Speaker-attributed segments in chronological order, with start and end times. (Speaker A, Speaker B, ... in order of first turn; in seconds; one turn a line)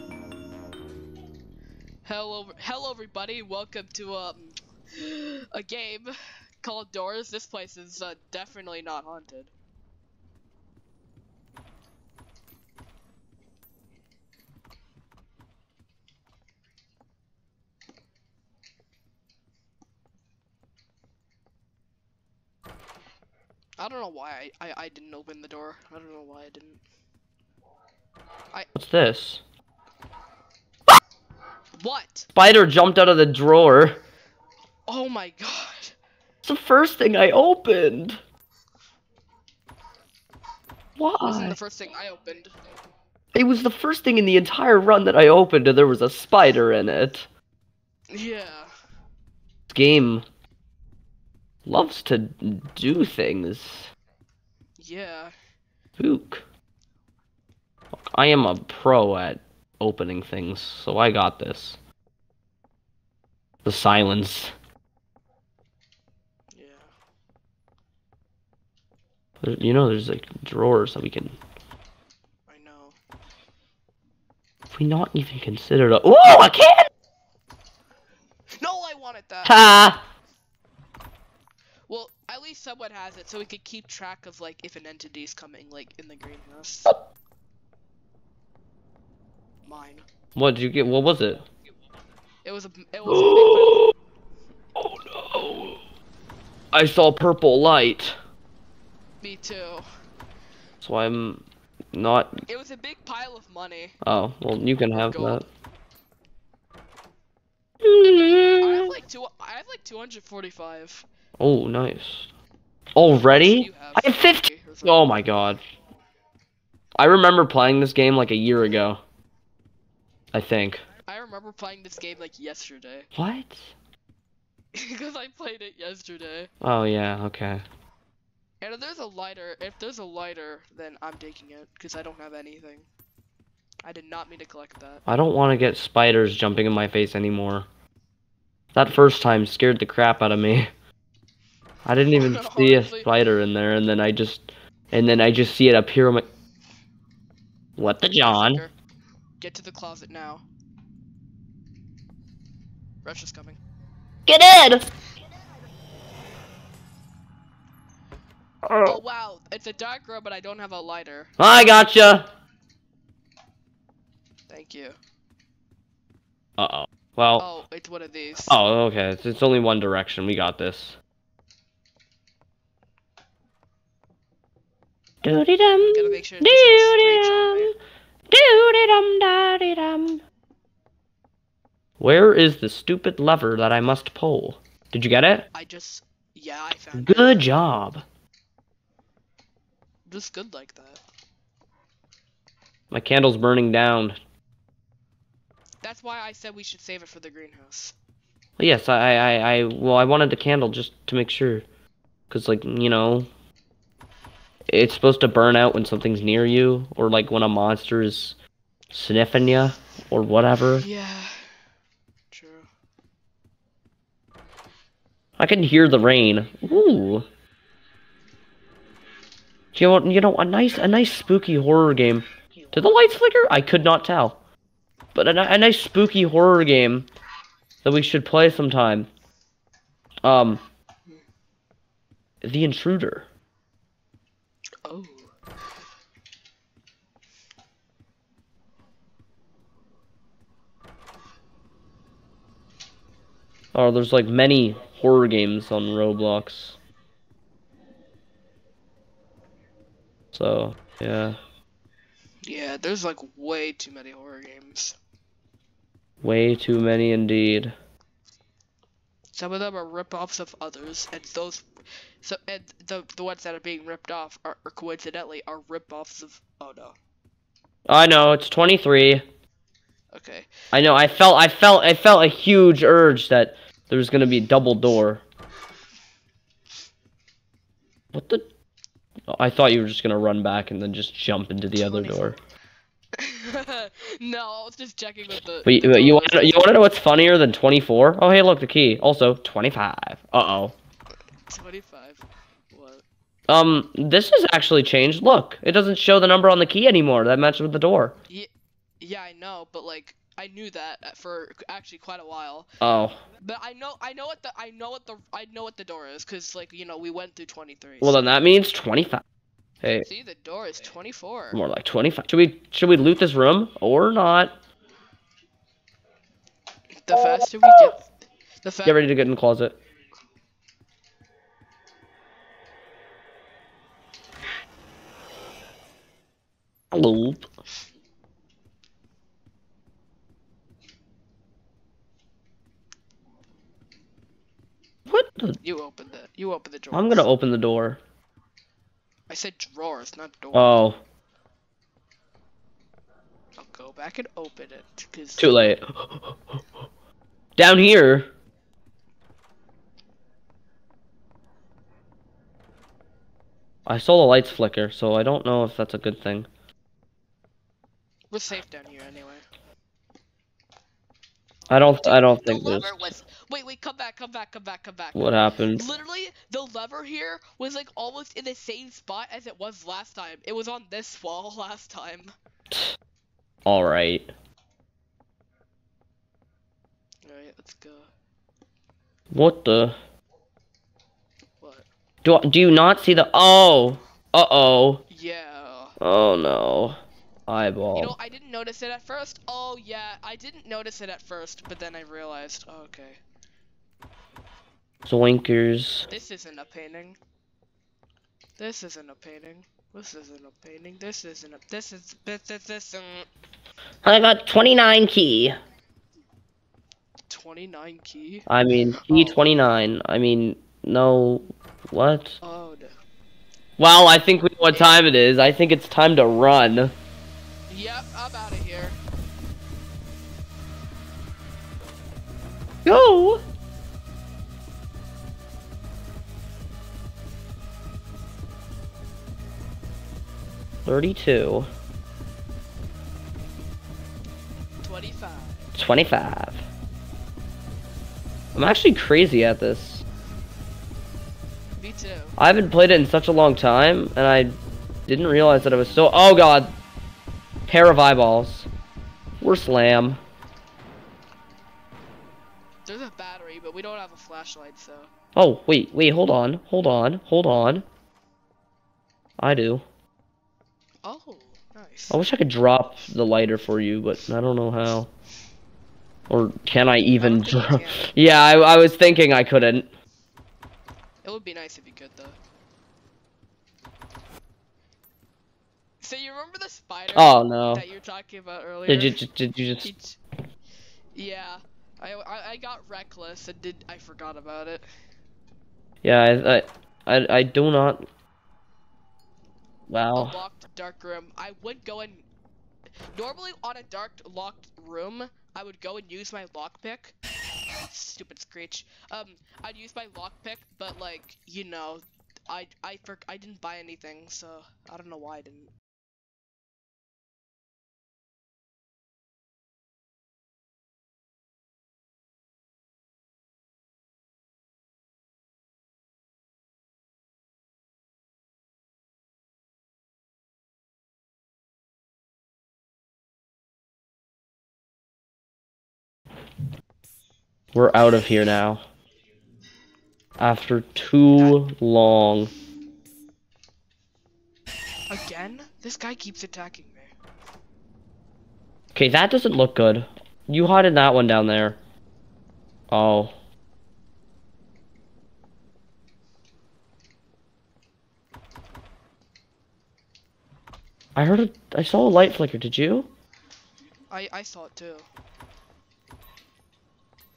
Speaker A: 2.0-9.5
Speaker A: 23.8-26.8
Speaker B: 28.7-29.4
Speaker A: 31.8-32.3
Speaker B: 32.3-34.0
Speaker A: 34.9-36.0
Speaker B: 36.4-38.2
Speaker B: 41.0-41.6
Speaker A: 41.2-42.5
Speaker B: 43.3-47.3
Speaker A: 48.1-48.7
Speaker B: 49.7-50.2
Speaker B: 51.6-53.9
Speaker A: 54.8-55.3
Speaker B: 56.0-56.4
Speaker B: 58.1-61.8
Speaker B: 63.6-64.5
Speaker A: 66.5-66.9
Speaker B: 69.4-71.4
Speaker A: 72.5-73.0
Speaker B: 74.7-76.9
Speaker A: 78.6-79.7
Speaker B: 79.4-80.0
Speaker A: 81.9-86.9
Speaker A: 89.7-90.0
Speaker B: 90.3-91.5
Speaker A: 92.4-93.9
Speaker B: 93.0-93.9
Speaker B: 94.8-95.8
Speaker B: 96.7-98.2
Speaker A: 99.2-99.8
Speaker B: 100.8-102.4
Speaker A: 102.5-104.0
Speaker B: 104.0-105.4
Speaker A: 104.9-105.5
Speaker B: 107.8-108.9
Speaker A: 108.6-111.0
Speaker B: 111.4-112.3
Speaker B: 112.9-115.6
Speaker A: 113.2-115.2
Speaker B: 117.0-119.0
Speaker B: 120.3-120.8
Speaker A: 121.0-123.1
Speaker B: 123.1-123.7
Speaker A: 124.7-126.5
Speaker B: 126.6-127.6
Speaker A: 128.6-132.9
Speaker A: 133.8-135.1
Speaker B: 135.1-137.7
Speaker B: 138.7-140.7
Speaker B: 141.8-146.3
Speaker A: 142.1-143.1
Speaker B: 147.8-148.6
Speaker A: 148.2-148.7
Speaker A: 149.4-150.4
Speaker A: 153.0-153.6
Speaker B: 154.3-154.9
Speaker B: 158.6-159.0
Speaker A: 158.8-161.3
Speaker B: 161.4-162.3
Speaker A: 164.5-165.0
Speaker B: 166.6-167.4
Speaker A: 167.4-168.6
Speaker B: 168.5-171.0
Speaker B: 175.2-177.7
Speaker A: 175.8-177.7
Speaker B: 178.3-180.2
Speaker B: 182.0-185.5
Speaker A: 185.5-187.5
Speaker B: 186.9-188.0
Speaker A: 190.1-191.0
Speaker B: 192.9-194.2
Speaker A: 195.8-197.9
Speaker B: 198.6-201.7
Speaker B: 202.3-203.3
Speaker B: 204.7-208.3
Speaker B: 208.9-210.8
Speaker A: 210.7-211.4
Speaker A: 212.3-212.7
Speaker B: 215.4-217.3
Speaker B: 219.7-224.4
Speaker B: 225.1-227.1
Speaker B: 227.8-229.1
Speaker B: 230.2-230.6
Speaker B: 232.4-233.3
Speaker A: 234.8-235.3
Speaker B: 243.7-246.8
Speaker B: 250.3-251.4
Speaker A: 252.4-254.9
Speaker B: 256.2-257.7
Speaker A: 259.3-261.7
Speaker A: 262.2-266.9
Speaker B: 267.9-269.2
Speaker A: 270.1-270.5
Speaker B: 270.7-275.2
Speaker B: 278.1-278.4
Speaker B: 279.3-282.4
Speaker A: 281.7-282.4
Speaker A: 283.1-286.7
Speaker B: 285.6-290.7
Speaker A: 291.5-293.0
Speaker B: 293.5-298.1
Speaker A: 298.3-302.7
Speaker B: 302.8-303.2
Speaker A: 303.4-308.2
Speaker B: 308.0-309.2
Speaker A: 310.0-311.6
Speaker B: 311.5-314.6
Speaker A: 316.9-318.1
Speaker B: 317.1-317.9
Speaker A: 318.6-319.0
Speaker B: 318.8-319.8
Speaker B: 326.9-327.5
Speaker B: 335.1-335.6
Speaker A: 335.6-337.3
Speaker B: 336.9-338.0
Speaker A: 339.3-340.8
Speaker B: 340.5-341.0
Speaker A: 343.6-345.6
Speaker B: 345.4-346.6
Speaker B: 347.6-348.3
Speaker B: 353.9-356.5
Speaker A: 358.3-359.4
Speaker B: 361.7-363.1
Speaker A: 362.0-372.3
Speaker B: 365.1-365.8
Speaker B: 372.7-372.9
Speaker B: 373.6-374.3
Speaker A: 377.2-378.1
Speaker B: 379.3-379.9
Speaker A: 381.6-381.9
Speaker B: 382.2-385.0
Speaker A: 385.1-386.0
Speaker B: 386.0-388.1
Speaker A: 387.9-393.2
Speaker B: 395.1-396.1
Speaker A: 396.1-397.2
Speaker A: 398.6-403.3
Speaker B: 404.0-405.6
Speaker A: 407.3-409.4
Speaker B: 408.5-412.4
Speaker A: 412.4-412.9
Speaker B: 413.8-416.9
Speaker A: 414.7-415.0
Speaker A: 417.7-419.0
Speaker B: 422.8-423.4
Speaker B: 430.8-431.7
Speaker A: 434.8-435.7
Speaker B: 435.7-436.6
Speaker B: 438.5-440.0
Speaker A: 441.8-442.4
Speaker B: 442.4-446.8
Speaker B: 447.7-448.7
Speaker B: 449.4-450.2
Speaker A: 452.9-455.1
Speaker B: 455.3-457.8
Speaker B: 459.4-459.8
Speaker A: 461.0-462.2
Speaker B: 462.1-465.1
Speaker B: 466.3-469.9
Speaker A: 467.2-468.1
Speaker A: 471.2-472.4
Speaker A: 476.0-479.2
Speaker B: 477.1-477.8
Speaker B: 478.9-479.9
Speaker A: 479.8-480.2
Speaker A: 481.1-484.9
Speaker B: 486.0-488.1
Speaker B: 489.9-490.4
Speaker A: 490.1-492.2
Speaker A: 493.1-497.1
Speaker A: 497.9-505.7
Speaker B: 527.7-528.8
Speaker B: 530.4-532.5
Speaker A: 535.1-537.1
Speaker B: 538.9-541.8
Speaker B: 542.9-543.3
Speaker B: 551.1-553.1
Speaker A: 554.1-555.1